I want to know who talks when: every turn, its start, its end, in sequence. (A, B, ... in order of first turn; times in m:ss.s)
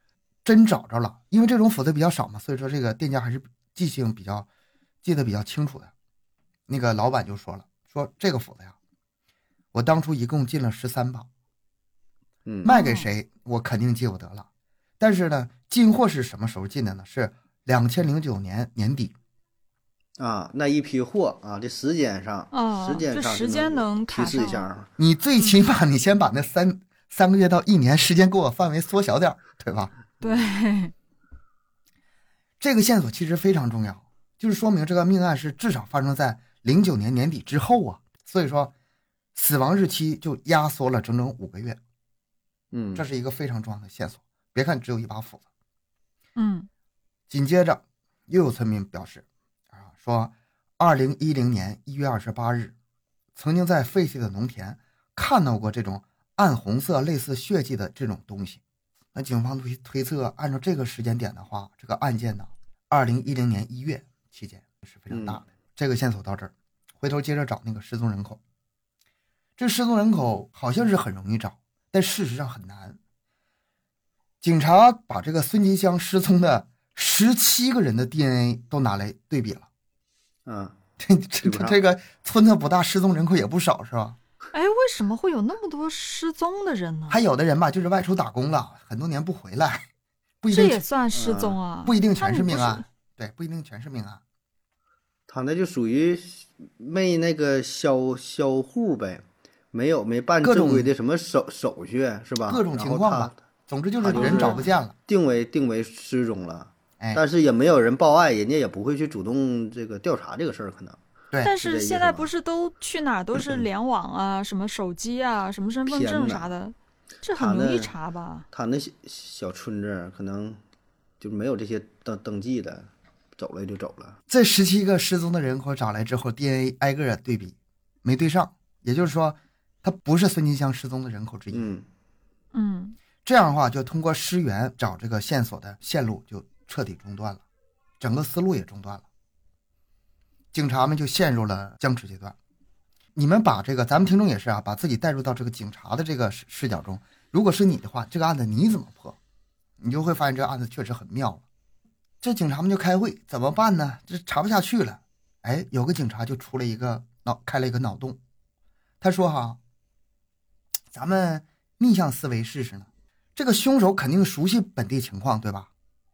0:00.4-0:04.5 A
0:05.0-0:05.9 A
0:06.7-0:08.8 A
0:09.7-0:11.3 A
0:12.5-0:12.7 B
0:12.6-0:14.5 A
0:12.7-0:13.1 C
0:15.0-0:19.1 A
0:20.2-0:24.9 B
0:22.5-0:24.7 C
0:25.0-0:29.9 A
0:30.2-0:30.5 B
0:30.2-0:30.9 C
0:32.6-0:38.7 A
0:39.4-0:41.8 A
0:42.7-0:43.0 B
0:43.0-0:45.5 A
0:46.4-0:46.7 C
0:47.3-0:52.8 A
0:53.4-0:58.6 A
0:59.2-1:08.4 A
1:05.1-1:05.4 B
1:09.6-1:13.0 A
1:14.4-1:19.7 A
1:20.5-1:20.8 B
1:21.0-1:24.2 A
1:21.4-1:21.8 B
1:24.5-1:27.2 C
1:27.1-1:29.8 A
1:30.4-1:30.8 A
1:30.5-1:32.8 C
1:31.1-1:31.6 B
1:31.8-1:34.2 A
1:35.3-1:43.4 B
1:40.4-1:40.9 A
1:42.5-1:45.0 A
1:44.0-1:51.0 B
1:44.1-1:44.7 C
1:51.4-1:58.5 C
1:51.6-1:52.3 B
1:55.9-1:56.5 B
1:57.4-1:57.9 B
1:58.5-2:00.6 B
2:01.2-2:04.2 B
2:04.3-2:11.7 A
2:11.5-2:11.9 B
2:12.5-2:13.0 C
2:13.2-2:17.4 A
2:18.0-2:19.1 A
2:20.5-2:22.4 A
2:23.2-2:29.2 A
2:29.8-2:31.4 A
2:32.2-2:38.2 A
2:39.0-2:39.6 A
2:40.9-2:45.7 A